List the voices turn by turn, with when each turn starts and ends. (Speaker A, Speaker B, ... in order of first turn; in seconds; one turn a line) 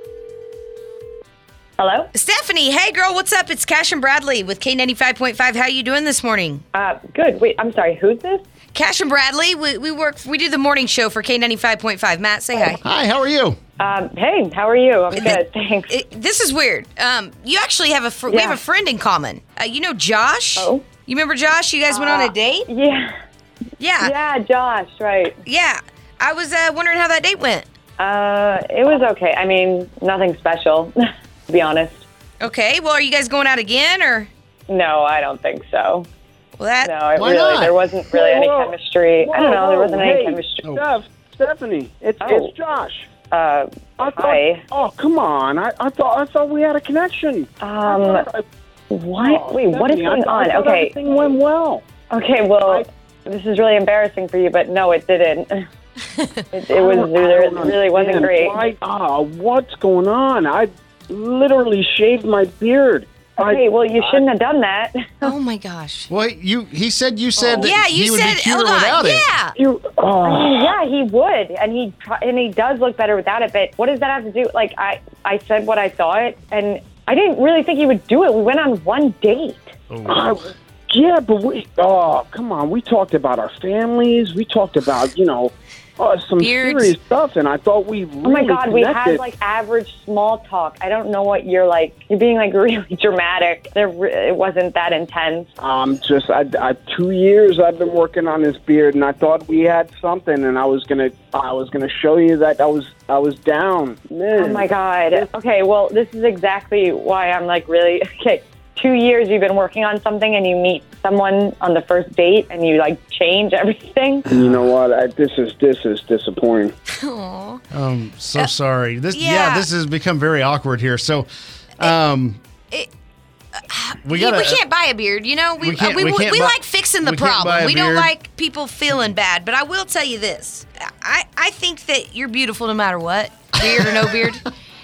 Speaker A: 1.8-2.1
Speaker B: 2.1-6.6
Speaker A: 6.7-8.4
Speaker B: 8.7-12.8
Speaker C: 12.8-13.6
Speaker A: 13.8-15.9
Speaker B: 15.1-22.7
Speaker A: 18.3-18.6
Speaker A: 20.6-20.9
Speaker A: 21.9-23.1
Speaker B: 23.8-24.1
Speaker A: 24.0-25.4
Speaker B: 25.5-27.7
Speaker A: 28.0-31.0
Speaker A: 31.5-32.0
Speaker B: 32.4-34.3
Speaker A: 34.7-36.1
Speaker B: 36.6-36.9
Speaker A: 36.8-40.6
Speaker C: 37.2-37.8
Speaker D: 38.1-43.1
Speaker A: 42.2-42.5
Speaker A: 43.3-44.6
Speaker D: 44.0-48.5
Speaker A: 47.6-48.3
Speaker A: 48.9-50.9
Speaker D: 49.2-51.8
Speaker A: 52.1-55.7
Speaker A: 56.5-58.6
Speaker D: 56.7-64.2
Speaker A: 63.4-65.3
Speaker B: 65.2-66.1
Speaker C: 66.1-69.2
Speaker B: 67.4-69.6
Speaker D: 69.6-70.7
Speaker A: 70.2-79.7
Speaker C: 79.9-80.4
Speaker D: 80.1-89.2
Speaker B: 86.4-87.0
Speaker A: 88.2-95.5
Speaker D: 95.6-104.7
Speaker A: 104.4-114.3
Speaker C: 114.3-114.7
Speaker D: 114.3-116.7
Speaker B: 116.9-117.6
Speaker C: 117.7-122.4
Speaker B: 119.1-119.7
Speaker B: 123.5-134.5
Speaker C: 124.0-124.6
Speaker C: 125.6-128.1
Speaker C: 133.6-134.3